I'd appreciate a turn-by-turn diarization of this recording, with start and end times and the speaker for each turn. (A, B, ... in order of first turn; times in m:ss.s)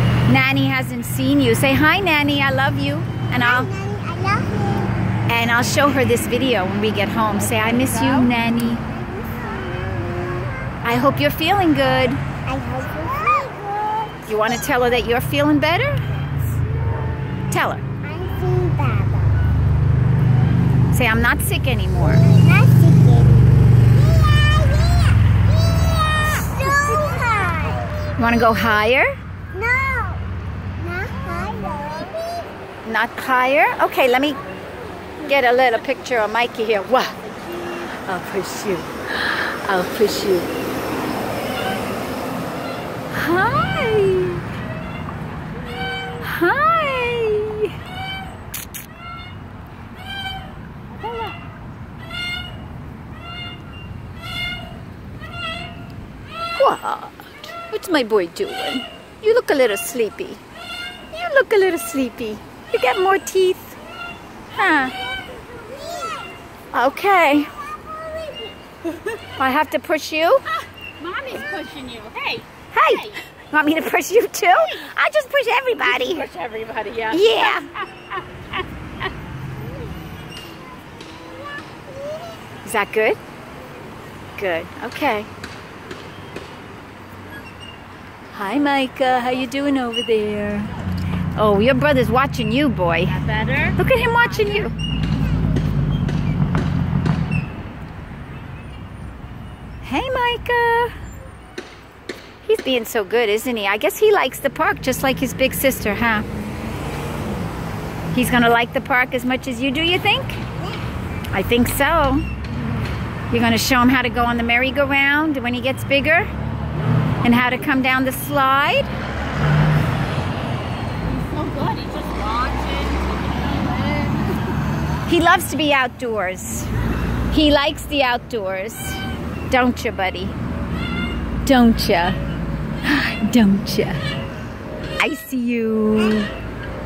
0:00.3-0:03.7 A
0:03.5-0:04.9 B
0:05.3-0:08.8 A
0:09.2-0:10.5 B
0:10.8-0:12.2 A
0:12.4-0:14.1 B
0:14.2-0:16.0 A
0:17.5-0:17.9 A
0:18.0-0:19.4 B
0:20.9-0:22.4 A
0:22.3-0:23.4 B
0:24.1-0:25.1 B
0:25.8-0:27.9 B
0:28.2-0:29.1 A
0:29.5-0:30.2 B
0:30.8-0:32.5 B
0:32.8-0:34.4 A
0:35.2-0:37.2 A
0:37.8-0:40.5 A
0:43.1-0:44.4 A
0:46.1-0:47.8 A
0:51.0-0:51.4 C
0:56.6-1:00.4 A
1:01.1-1:03.8 A
1:04.5-1:05.0 A
1:05.3-1:06.2 B
1:06.7-1:07.5 A
1:09.4-1:10.5 A
1:11.0-1:13.1 C
1:12.7-1:16.3 A
1:15.9-1:17.5 C
1:17.1-1:17.7 A
1:22.6-1:23.2 A
1:24.4-1:25.3 A
1:28.3-1:30.7 A
1:31.4-1:34.7 A
1:33.2-1:33.8 C
1:39.8-1:40.9 A
1:42.4-1:46.2 A
1:48.1-1:50.4 A
1:51.3-1:52.2 A
1:53.3-1:56.3 A
1:57.2-1:58.9 A
2:01.0-2:04.5 C
2:05.1-2:06.7 A
2:07.3-2:10.3 A
2:11.4-2:12.2 A
2:12.8-2:14.0 A
2:15.0-2:16.3 A